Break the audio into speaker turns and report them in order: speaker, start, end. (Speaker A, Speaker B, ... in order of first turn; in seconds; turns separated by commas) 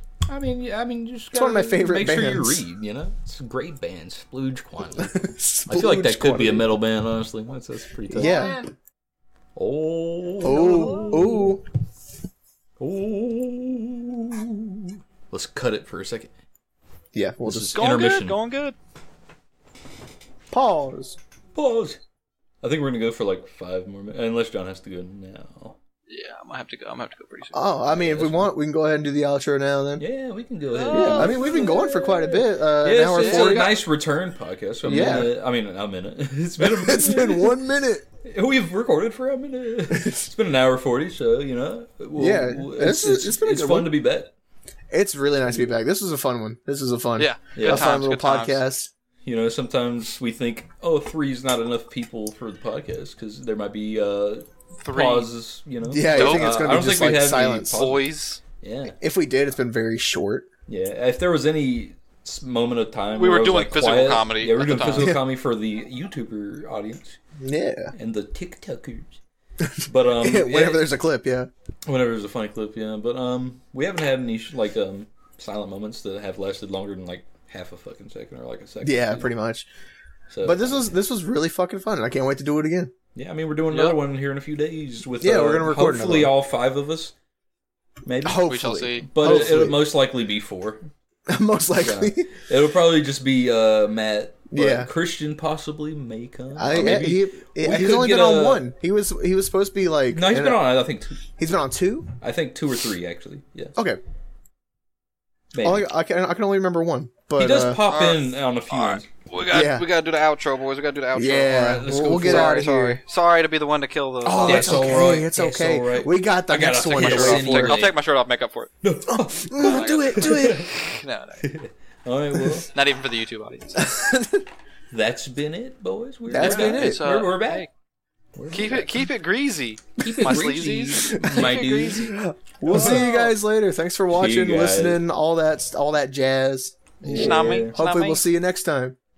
Speaker A: 0.3-8.5, Speaker B: 1.3-2.6, Speaker B: 5.0-6.7, Speaker B: 8.1-8.6, Speaker C: 8.2-8.7, Speaker A: 9.5-11.6, Speaker B: 10.4-11.6, Speaker A: 12.8-16.3, Speaker B: 17.1-17.8, Speaker A: 17.4-18.4, Speaker C: 17.7-18.7, Speaker B: 20.5-21.2, Speaker A: 21.5-22.0, Speaker A: 22.6-25.8, Speaker C: 26.1-27.6, Speaker B: 27.5-30.0, Speaker A: 27.9-28.5, Speaker A: 30.0-37.6, Speaker C: 30.7-31.9, Speaker B: 30.9-33.8, Speaker C: 33.2-33.6, Speaker B: 34.8-35.3, Speaker B: 36.6-38.0, Speaker A: 38.2-44.3, Speaker B: 39.9-40.2, Speaker B: 42.1-43.9, Speaker B: 44.9-48.9, Speaker C: 47.2-48.6, Speaker A: 47.5-47.9, Speaker A: 49.2-58.0, Speaker C: 54.8-55.3, Speaker B: 55.9-57.9, Speaker C: 56.0-56.6, Speaker C: 57.7-58.4, Speaker A: 58.6-59.0, Speaker B: 59.0-60.5, Speaker A: 60.7-67.2, Speaker C: 63.1-65.1, Speaker B: 67.4-67.9, Speaker A: 67.9-69.2, Speaker B: 69.6-71.5, Speaker A: 69.8-70.8, Speaker A: 71.8-79.3, Speaker B: 78.8-79.7, Speaker A: 80.3-80.9, Speaker B: 80.4-82.9, Speaker A: 83.1-87.1, Speaker C: 83.7-84.0, Speaker B: 85.2-86.3, Speaker A: 88.0-90.9, Speaker B: 88.2-89.8, Speaker C: 88.5-89.5, Speaker B: 91.3-92.3, Speaker A: 91.8-98.7, Speaker B: 94.5-94.9, Speaker B: 96.6-100.7, Speaker A: 100.1-101.2, Speaker B: 101.4-102.1, Speaker A: 102.2-103.8, Speaker A: 105.5-105.9, Speaker B: 105.6-107.8, Speaker A: 107.3-109.1, Speaker C: 107.8-115.2, Speaker B: 109.5-109.8, Speaker B: 111.1-113.0, Speaker A: 111.6-112.7, Speaker B: 114.2-117.8, Speaker A: 114.4-118.0, Speaker C: 116.5-118.7, Speaker A: 118.8-120.9, Speaker B: 119.1-120.6, Speaker C: 119.6-121.5, Speaker A: 121.4-122.7, Speaker C: 122.7-123.9, Speaker B: 123.8-124.5, Speaker A: 124.9-127.7, Speaker B: 126.3-127.0, Speaker C: 126.3-127.7, Speaker A: 128.3-129.1, Speaker C: 128.5-133.3, Speaker A: 130.0-132.1, Speaker B: 132.1-138.9, Speaker A: 132.7-133.1, Speaker A: 134.1-135.0, Speaker C: 137.0-138.2, Speaker A: 137.0-137.8